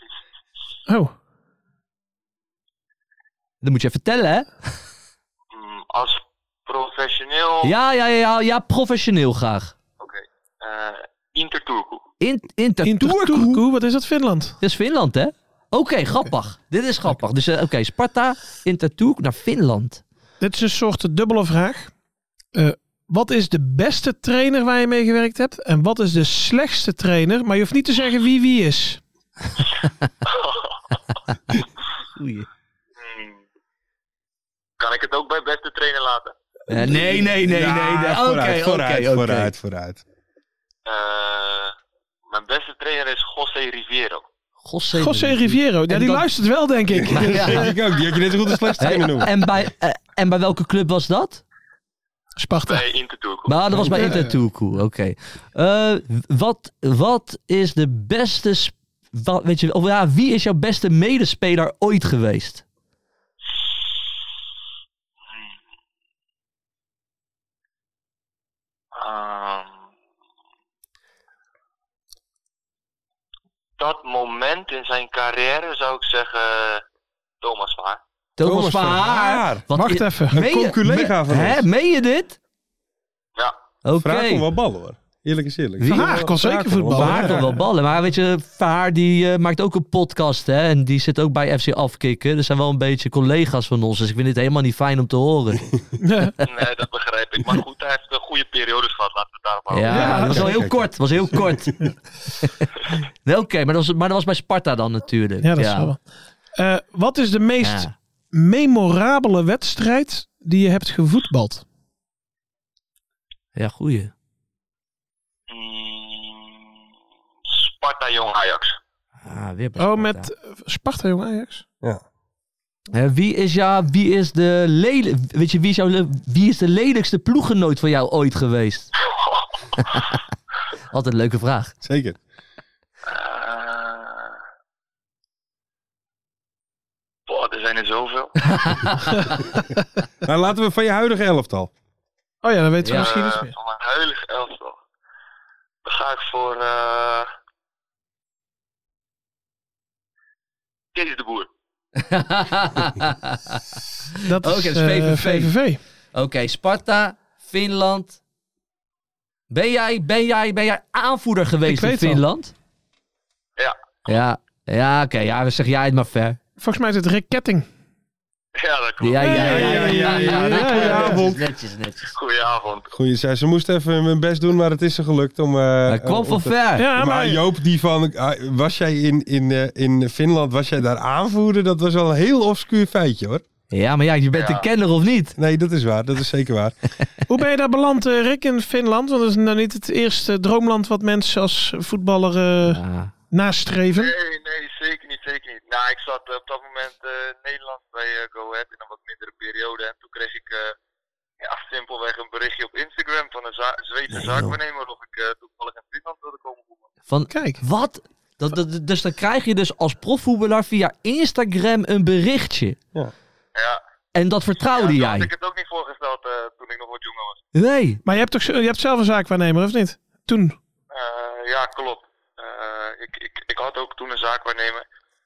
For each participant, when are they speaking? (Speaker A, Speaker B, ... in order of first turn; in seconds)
Speaker A: 0.9-1.1, 12.8-14.6, 20.4-21.9, 22.5-29.0, 45.0-47.7, 52.4-52.8, 53.7-54.4, 79.7-80.4, 85.9-87.6, 96.0-96.3, 99.9-100.6, 105.4-106.0, 106.5-111.6, 119.8-121.6, 142.4-143.5, 154.3-155.8, 161.7-162.2, 166.6-167.7, 169.2-171.2, 176.8-177.4, 187.3-192.8, 193.3-194.1, 207.3-207.6, 218.0-220.6
Speaker B: 3.6-4.5, 7.6-9.7, 12.2-13.6, 14.6-20.0, 32.1-32.5, 36.7-39.5, 44.6-46.3, 47.1-47.7, 48.8-51.4, 53.5-62.6, 78.4-82.4, 83.8-84.5, 85.8-86.3, 86.9-95.7, 99.7-101.8, 103.2-105.9, 107.6-107.9, 113.5-114.1, 119.2-120.3, 122.9-128.9, 130.9-131.7, 138.4-139.1, 142.8-143.1, 151.9-153.6, 154.2-155.5, 156.1-158.2, 159.5-162.5, 164.1-166.4, 169.0-172.1, 175.9-176.9, 183.7-185.3, 192.6-193.1, 207.1-212.8, 214.1-215.3, 217.5-218.0
Speaker C: 5.5-7.7, 10.0-12.0, 30.2-30.8, 33.0-33.4, 34.8-36.3, 40.8-41.7, 42.3-44.2, 52.6-53.6, 68.9-69.8, 73.8-76.8, 77.4-78.0, 96.4-100.4, 115.5-116.7, 117.5-118.8, 129.0-129.6, 133.0-134.4, 137.3-138.3, 142.9-144.8, 145.8-147.3, 150.9-151.5, 163.6-164.1, 168.6-169.9, 172.1-172.9, 184.3-184.7, 193.9-200.8, 201.4-206.9, 213.6-213.8, 214.6-217.4, 220.9-224.8
Speaker D: 37.2-40.0, 47.1-49.3, 78.4-79.7, 80.3-81.6, 84.0-87.4, 100.2-100.8, 131.8-132.2, 140.2-141.7, 169.4-171.4, 172.9-183.4, 185.4-186.7